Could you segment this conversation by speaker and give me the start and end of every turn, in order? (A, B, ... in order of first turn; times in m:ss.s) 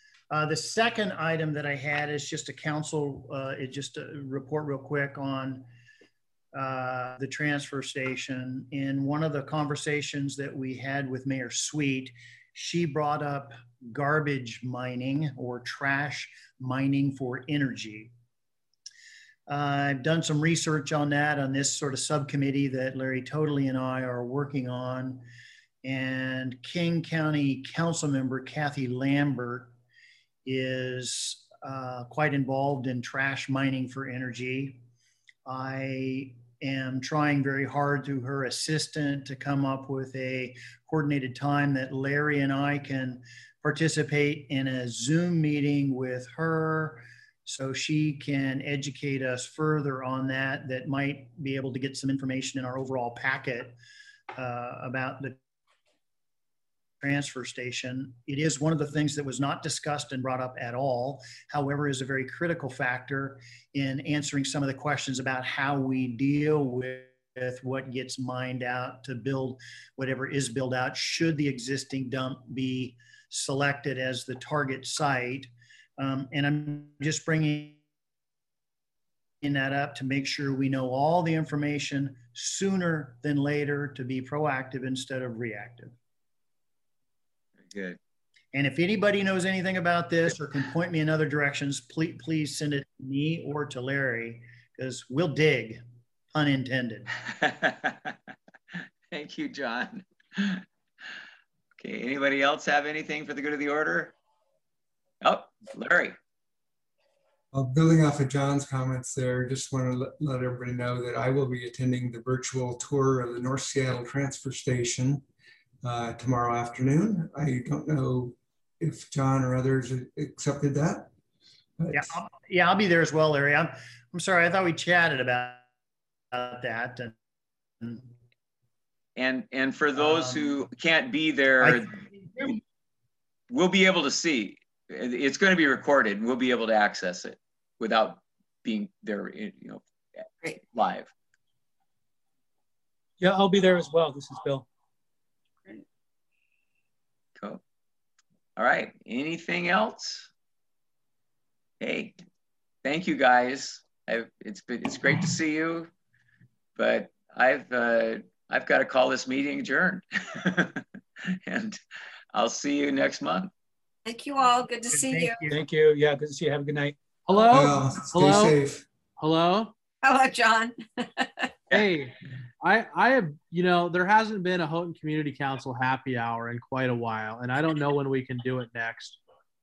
0:00.3-0:05.7 A
0:06.6-0:18.1 A
0:19.5-0:25.2 A
0:25.8-0:29.7 A
0:30.5-0:34.8 A
0:35.5-0:53.8 A
0:54.3-0:55.4 A
0:57.0-1:17.8 A
1:19.4-1:25.9 A
1:27.6-1:28.0 B
1:28.5-1:35.8 A
1:36.3-1:37.1 A
1:37.2-1:40.6 B
1:41.8-1:44.2 B
1:45.2-1:46.2 B
1:47.5-1:55.2 C
1:55.8-2:01.1 C
2:01.8-2:02.1 C
2:01.9-2:05.7 A
2:06.3-2:07.1 A
2:07.8-2:08.1 A
2:09.2-2:11.9 B
2:10.0-2:10.6 A
2:11.6-2:12.6 A
2:13.5-2:19.8 B
2:20.6-2:21.1 B
2:23.2-2:24.7 D
2:27.4-2:27.6 B
2:28.6-2:30.3 B
2:31.8-2:32.2 B
2:32.8-2:35.9 B
2:36.8-2:41.8 B
2:42.3-2:43.5 B
2:44.1-2:45.4 E
2:44.9-2:45.6 A
2:45.5-2:47.0 D
2:47.3-2:48.6 F
2:47.5-2:48.8 C
2:49.2-2:49.7 F
2:50.0-2:51.5 E
2:51.7-2:59.2 F